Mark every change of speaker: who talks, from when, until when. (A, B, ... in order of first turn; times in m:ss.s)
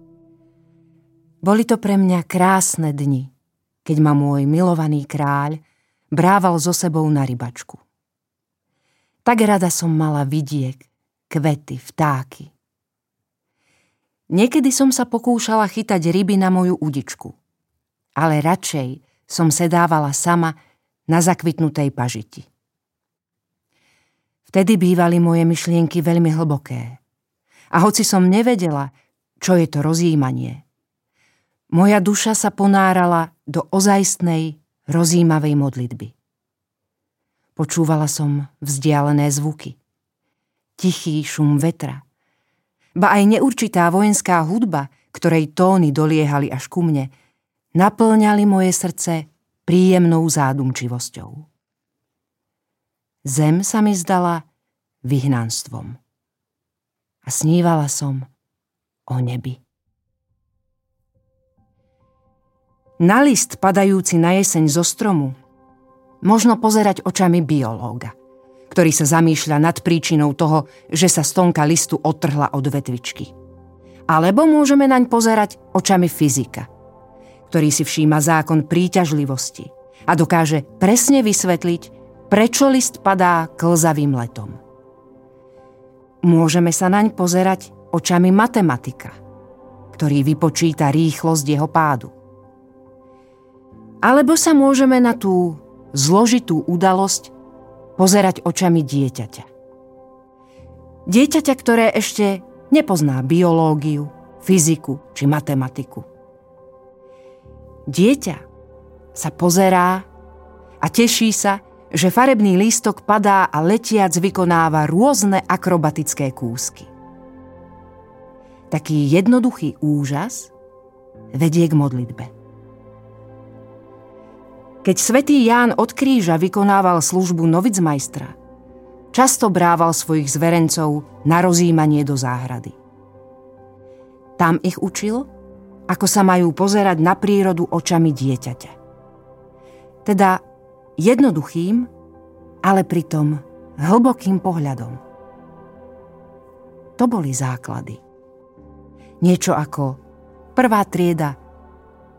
0:01.4-0:03.3 A
0:03.8-0:07.8 A
0:09.2-0:12.5 A
0:14.3-0:17.4 A
0:18.2-0:20.6 A
0:21.1-0:22.5 A
0:24.4-0:27.0 A
0:27.7-0:30.6 A
0:31.7-0:36.1 A
0:37.6-0:39.8 A
0:40.8-0:42.0 A
0:43.0-0:47.1 A
0:47.7-0:51.5 A
0:53.2-0:54.4 A
0:55.0-0:56.0 A
0:57.2-0:58.3 A
0:59.1-0:59.6 A
1:03.0-1:05.4 A
1:06.2-1:08.1 A
1:08.7-1:13.3 A
1:14.1-1:16.7 A
1:17.5-1:24.6 A
1:26.2-1:29.2 A
1:29.9-1:32.1 A
1:34.0-1:37.3 A
1:38.0-1:39.5 A
1:41.0-1:46.1 A
1:47.9-1:48.4 A
1:49.1-1:50.1 A
1:50.8-1:56.9 A
1:58.7-2:00.5 A
2:01.3-2:02.3 A
2:04.8-2:08.3 A
2:09.1-2:12.8 A
2:14.4-2:15.3 A
2:15.9-2:18.7 A
2:20.0-2:20.4 A
2:21.0-2:21.9 A
2:22.6-2:25.0 A
2:27.0-2:28.0 A
2:29.2-2:30.0 A
2:30.5-2:31.4 A